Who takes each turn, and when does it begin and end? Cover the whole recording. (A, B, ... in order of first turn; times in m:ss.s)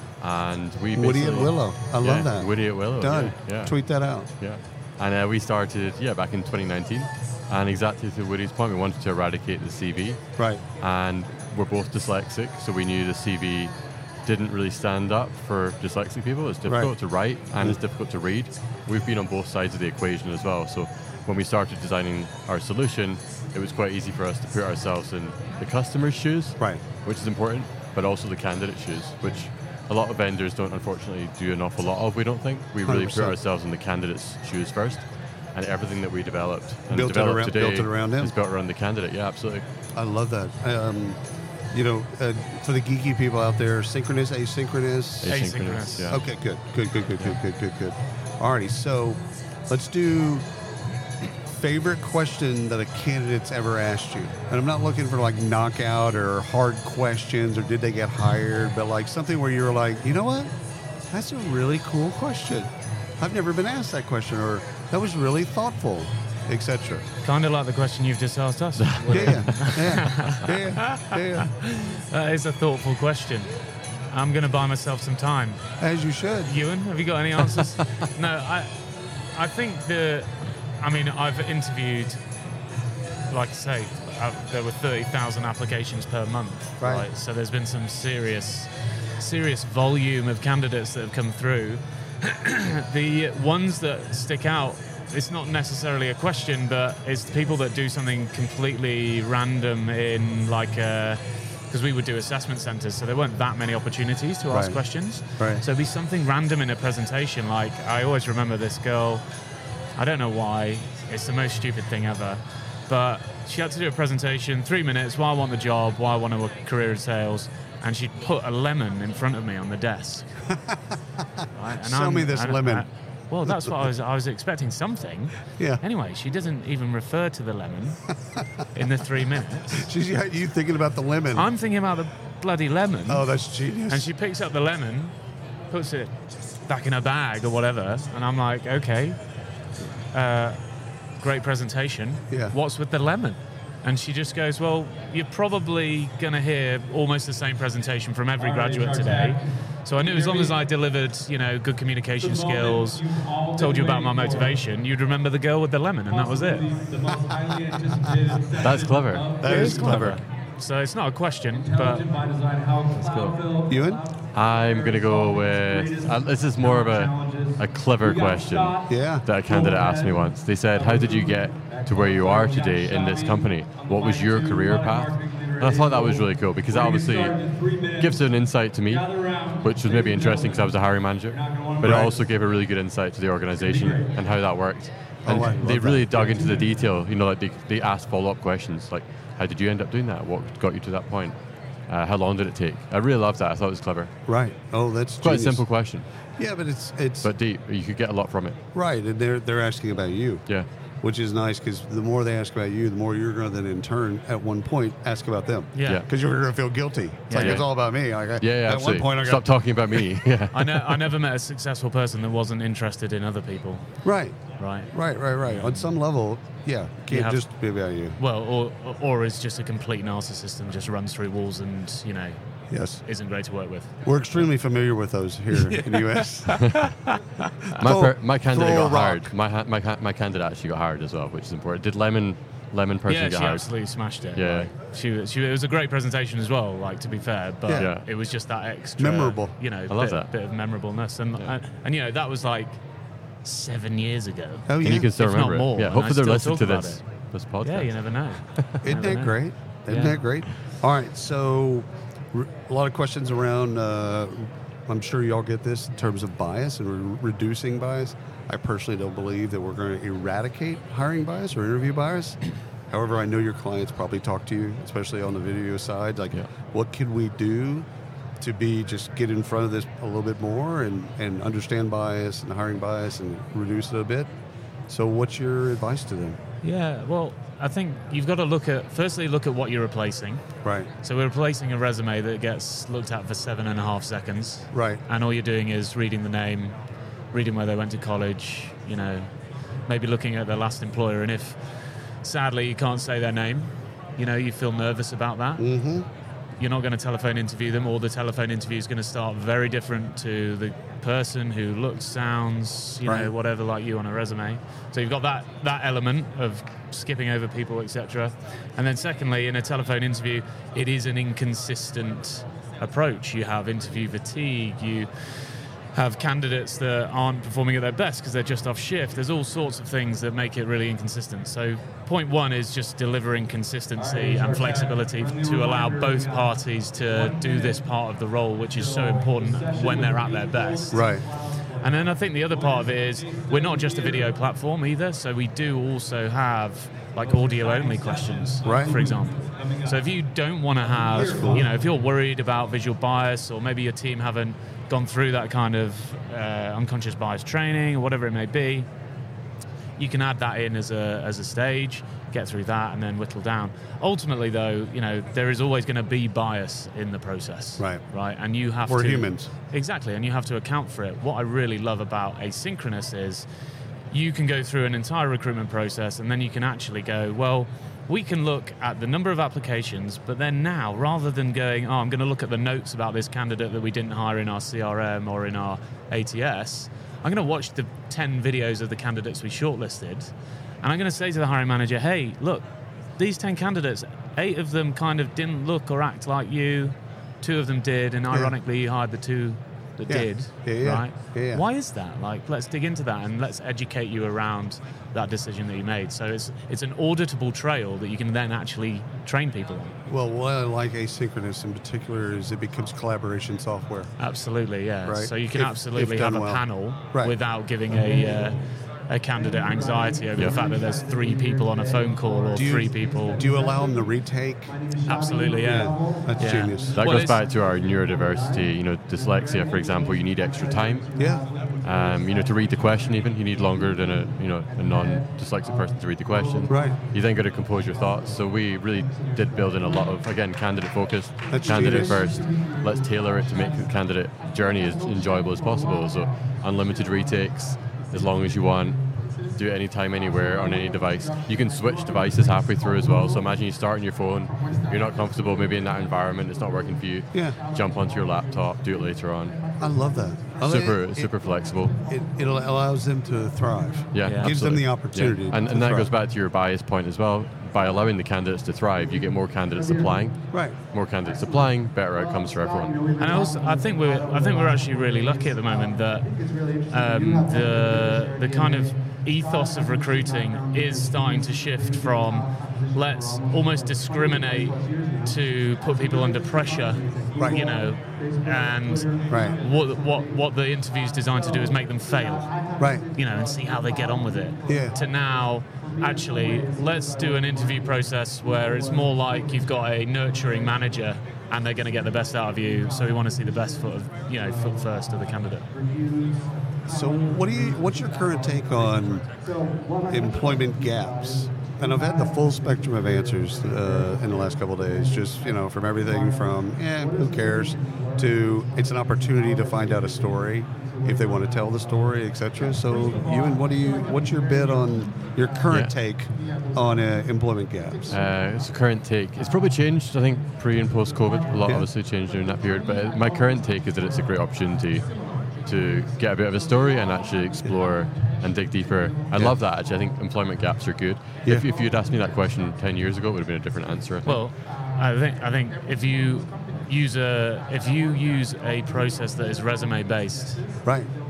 0:00.2-0:03.7 A
0:00.9-0:04.3 B
0:04.4-0:10.2 A
0:10.4-0:10.6 B
0:10.8-0:13.7 A
0:14.2-0:35.0 A
0:16.6-0:16.9 B
0:32.8-0:33.4 B
0:35.5-0:39.6 A
0:36.9-0:38.3 B
0:39.9-0:41.2 B
0:41.7-0:45.4 B
0:45.2-0:46.2 A
0:45.3-0:46.1 C
0:46.1-0:50.4 B
0:51.5-1:00.5 B
1:01.1-1:07.0 B
1:07.2-1:13.5 C
1:08.8-1:09.8 A
1:09.1-1:11.5 B
1:14.1-1:15.6 C
1:15.8-1:16.5 B
1:16.4-1:18.8 C
1:19.3-1:22.2 C
1:23.3-1:49.2 C
1:26.8-1:27.0 B
1:44.5-1:44.8 B
1:45.4-1:45.6 B
1:50.0-2:00.3 C
2:00.5-2:00.8 B
2:01.5-2:08.0 C
2:01.8-2:02.8 B
2:03.4-2:03.7 B
2:08.7-2:09.9 C
2:09.7-2:11.5 B
2:11.3-2:13.3 C
2:13.1-2:14.1 B
2:13.9-2:15.1 C
2:15.7-2:16.1 C
2:16.7-2:19.2 C
2:20.1-2:20.6 C
2:21.2-2:36.7 C
2:28.4-2:29.4 D
2:30.0-2:30.5 D
2:32.2-2:34.6 D
2:36.1-2:40.1 D
2:38.6-2:39.4 A
2:39.4-2:40.2 B
2:39.4-2:42.0 C
2:41.6-2:58.3 D
2:43.0-2:43.4 A
2:43.7-2:44.0 B
2:44.3-2:57.4 A
2:48.9-2:49.2 B
2:58.0-3:11.3 A
2:58.9-3:00.8 D
3:01.3-3:02.2 D
3:01.8-3:02.1 B
3:03.6-3:04.1 D
3:05.2-3:06.0 B
3:06.1-3:06.7 D
3:11.9-3:14.1 A
3:14.3-3:15.6 B
3:15.2-3:16.0 A
3:16.4-3:17.3 B
3:17.2-3:18.6 A
3:18.7-3:20.4 B
3:21.0-3:29.4 B
3:25.7-3:26.0 C
3:27.3-3:27.6 C
3:27.4-3:27.7 A
3:28.4-3:31.0 A
3:30.5-3:33.8 C
3:34.0-3:38.2 B
3:34.6-3:34.9 C
3:35.4-3:35.9 C
3:37.1-3:37.4 C
3:38.2-3:42.4 C
3:42.7-3:43.0 B
3:43.0-3:43.9 C
3:44.0-3:46.6 B
3:45.5-3:47.8 C
3:47.8-3:49.3 B
3:47.8-3:53.7 A
3:53.1-4:02.8 C
3:54.3-3:54.7 A
3:57.8-3:58.0 A
3:59.0-3:59.5 B
3:59.9-4:00.3 A
4:03.4-4:07.0 C
4:04.7-4:05.1 B
4:04.8-4:07.9 A
4:07.6-4:09.4 C
4:08.8-4:22.4 B
4:09.9-4:10.2 C
4:22.9-4:27.8 B
4:28.4-4:34.3 B
4:34.9-4:36.4 B
4:36.6-4:40.4 C
4:40.6-4:40.9 B
4:41.0-4:46.7 C
4:44.7-4:45.0 B
4:47.3-4:49.3 C
4:49.9-4:51.6 C
4:52.2-4:55.6 C
4:55.6-4:56.1 B
4:56.6-5:15.1 C
5:03.0-5:03.3 B
5:15.9-5:31.1 C
5:24.0-5:26.5 D
5:27.0-5:27.8 D
5:28.7-5:32.0 D
5:30.9-5:31.2 B
5:31.8-5:48.9 C
5:32.5-5:34.3 D
5:37.2-5:40.1 D
5:38.6-5:39.0 B
5:40.8-5:41.7 D
5:41.2-5:41.6 B
5:50.0-6:03.4 C
5:58.8-5:59.5 B
6:04.1-6:22.6 C
6:23.2-6:40.0 C
6:30.1-6:31.6 B
6:40.1-6:44.1 B
6:44.2-6:53.4 C
6:45.0-6:46.6 B
6:50.4-6:50.8 D
6:52.5-6:54.8 B
6:55.0-6:57.4 C
6:55.5-6:55.8 D
6:55.6-6:57.0 B
6:56.9-7:01.1 A
7:01.2-7:01.4 B
7:01.8-7:19.0 A
7:06.7-7:07.0 B
7:11.5-7:12.2 B
7:19.5-7:29.6 A
7:27.3-7:27.6 B
7:29.8-7:31.3 B
7:30.6-7:32.0 A
7:32.1-7:36.1 B
7:34.1-7:43.1 A
7:34.2-7:34.6 C
7:40.5-7:40.8 B
7:43.2-8:02.5 C
7:43.4-7:44.0 D
7:57.4-7:57.6 B
7:57.4-7:57.9 D
7:59.3-7:59.6 B
7:59.3-7:59.8 D
8:02.8-8:03.0 B
8:03.1-8:15.7 C
8:04.6-8:04.9 B
8:16.8-8:19.3 B
8:20.1-8:38.2 B
8:33.5-8:34.2 D
8:38.1-8:45.1 A
8:45.6-8:54.4 A
8:54.2-9:00.6 C